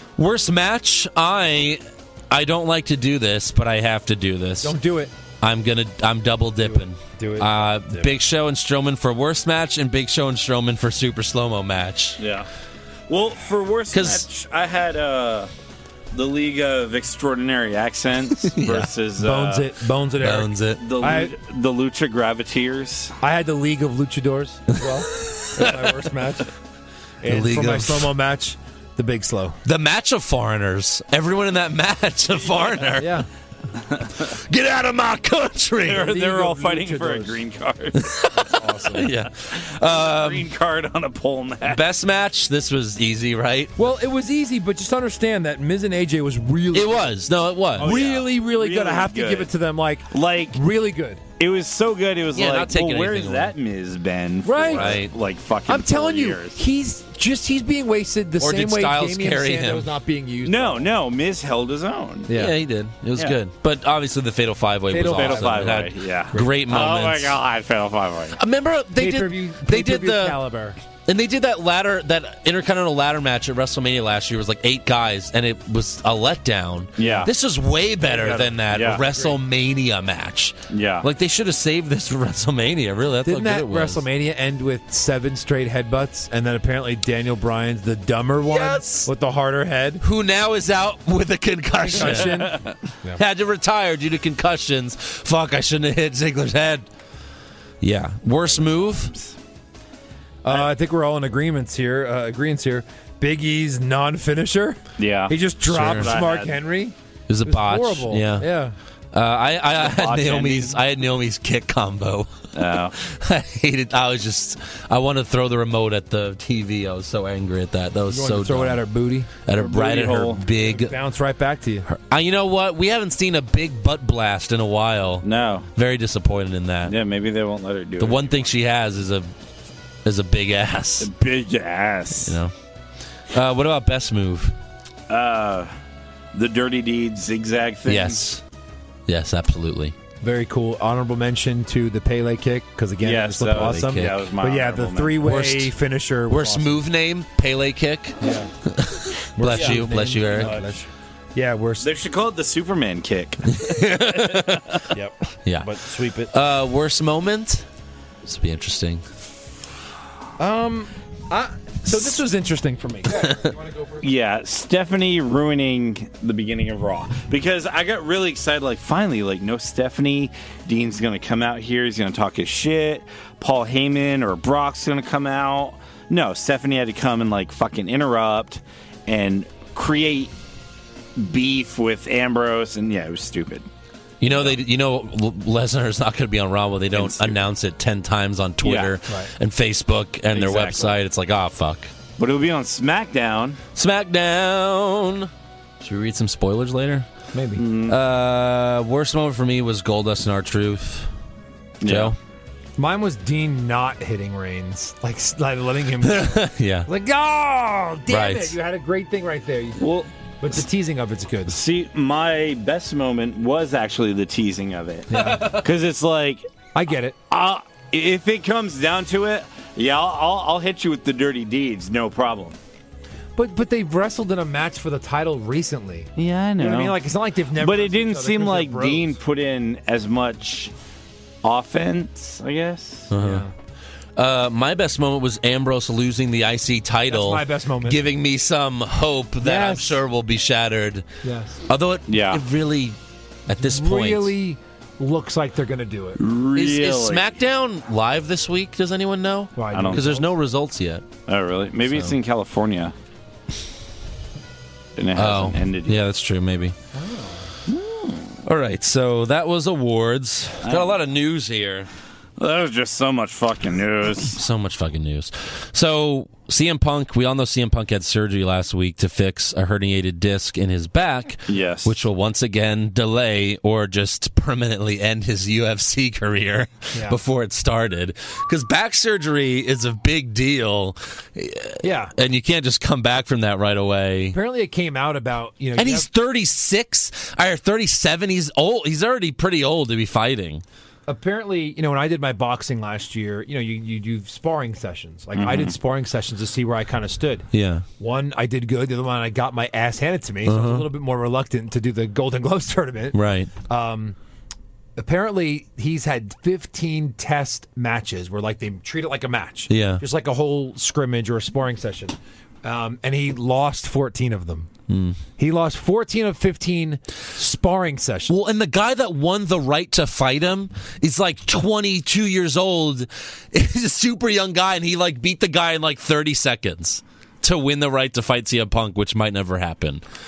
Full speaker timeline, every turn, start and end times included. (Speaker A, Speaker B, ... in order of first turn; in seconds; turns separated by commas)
Speaker A: 0.2-4.7, Speaker B: 4.6-5.1, Speaker A: 5.4-12.2, Speaker B: 6.6-8.1, Speaker C: 12.2-12.5, Speaker C: 13.1-15.5, Speaker A: 13.9-14.3, Speaker C: 16.1-19.7, Speaker A: 18.4-18.9, Speaker B: 19.2-21.3, Speaker A: 20.2-20.8, Speaker C: 20.8-23.2, Speaker B: 23.2-26.5, Speaker A: 24.8-26.0, Speaker B: 27.2-29.6, Speaker A: 27.2-28.1, Speaker A: 29.6-33.2, Speaker B: 33.0-33.3, Speaker A: 34.2-36.1, Speaker C: 35.8-38.3, Speaker B: 35.9-37.4, Speaker A: 38.0-40.5, Speaker B: 38.4-39.1, Speaker C: 39.6-41.8, Speaker A: 41.6-43.7, Speaker B: 43.8-51.2, Speaker A: 46.7-48.0, Speaker C: 47.8-49.5, Speaker C: 50.1-50.6, Speaker C: 51.4-56.6, Speaker A: 52.3-53.5, Speaker B: 54.4-55.0, Speaker A: 54.7-55.1, Speaker B: 55.7-60.9, Speaker A: 58.4-59.9, Speaker C: 60.4-62.3, Speaker B: 62.3-62.6, Speaker A: 62.3-67.4, Speaker B: 64.9-65.8, Speaker C: 65.0-68.4, Speaker A: 68.4-70.4, Speaker B: 69.0-70.8, Speaker A: 71.0-84.0, Speaker C: 77.0-77.3, Speaker B: 77.0-77.3, Speaker B: 78.1-79.4, Speaker C: 78.7-79.0, Speaker C: 80.7-81.1, Speaker B: 83.2-90.0, Speaker A: 88.4-89.1, Speaker A: 90.0-92.6, Speaker B: 91.8-93.2, Speaker C: 92.1-92.7, Speaker A: 93.1-96.9, Speaker A: 97.8-99.1, Speaker C: 98.4-99.4, Speaker B: 100.4-108.7, Speaker C: 105.0-106.6, Speaker A: 105.6-106.2, Speaker A: 107.3-108.5, Speaker A: 109.1-118.8, Speaker C: 109.8-110.8, Speaker C: 112.5-112.9, Speaker B: 118.1-119.3, Speaker A: 119.4-120.9, Speaker C: 119.5-120.4, Speaker B: 120.5-121.9, Speaker A: 121.9-127.0, Speaker C: 125.2-125.7, Speaker C: 126.9-128.5, Speaker A: 128.0-129.3, Speaker A: 130.1-131.1, Speaker C: 131.0-132.4, Speaker A: 132.2-132.5, Speaker A: 133.3-134.5, Speaker C: 135.1-135.7, Speaker C: 136.3-138.2, Speaker A: 137.9-138.4, Speaker A: 139.1-139.9, Speaker B: 140.2-146.8, Speaker C: 143.0-145.2, Speaker A: 143.5-144.2, Speaker A: 145.2-145.7, Speaker A: 146.3-150.8, Speaker B: 148.2-148.5, Speaker B: 149.4-151.9, Speaker C: 149.5-150.5, Speaker C: 151.8-153.6, Speaker A: 153.4-154.9, Speaker B: 154.9-156.3, Speaker A: 155.4-155.7, Speaker A: 156.3-157.7, Speaker A: 158.2-159.0, Speaker B: 160.4-164.0, Speaker A: 163.2-163.5, Speaker C: 164.0-180.3, Speaker C: 181.2-183.7, Speaker A: 184.2-191.9, Speaker C: 184.3-184.6, Speaker C: 186.9-187.4, Speaker C: 188.6-188.9, Speaker C: 190.3-190.9, Speaker C: 192.2-193.6, Speaker A: 193.7-195.3, Speaker A: 195.8-197.1, Speaker B: 197.3-197.6, Speaker C: 197.6-198.0, Speaker A: 197.9-201.1, Speaker C: 201.8-202.1, Speaker A: 201.8-202.2, Speaker B: 202.8-209.9, Speaker A: 206.0-206.9, Speaker A: 208.1-208.6, Speaker C: 209.8-210.1, Speaker B: 210.4-211.6, Speaker C: 211.5-216.4, Speaker B: 215.1-215.6, Speaker A: 215.1-215.6, Speaker B: 216.7-217.2, Speaker C: 217.3-222.6, Speaker B: 223.4-229.2, Speaker C: 226.2-227.0, Speaker C: 227.6-230.7, Speaker C: 231.4-233.1, Speaker A: 233.1-233.5, Speaker B: 233.2-233.5, Speaker A: 234.2-241.1, Speaker B: 237.1-238.1, Speaker B: 239.4-240.0, Speaker B: 241.2-241.6, Speaker A: 241.7-243.0, Speaker C: 242.1-242.4, Speaker A: 243.5-244.3, Speaker B: 243.5-246.2, Speaker C: 246.2-247.3, Speaker A: 246.6-251.1, Speaker B: 249.6-250.3, Speaker C: 249.7-250.2, Speaker C: 251.3-252.9, Speaker A: 251.9-252.1, Speaker C: 254.9-256.0, Speaker A: 255.1-256.8, Speaker B: 256.9-257.5, Speaker A: 258.4-261.9, Speaker C: 260.6-261.0, Speaker C: 262.4-264.4, Speaker A: 264.3-284.4, Speaker C: 271.5-272.0, Speaker B: 276.9-277.2, Speaker B: 281.8-282.1, Speaker B: 284.3-286.1, Speaker A: 285.8-290.6, Speaker B: 291.1-297.5, Speaker C: 295.3-295.7, Speaker A: 297.5-297.8, Speaker B: 298.0-304.1, Speaker A: 300.4-300.9, Speaker A: 303.1-303.5, Speaker B: 304.9-314.7, Speaker A: 309.7-310.0, Speaker A: 314.9-315.2, Speaker B: 315.4-318.3, Speaker A: 318.3-330.0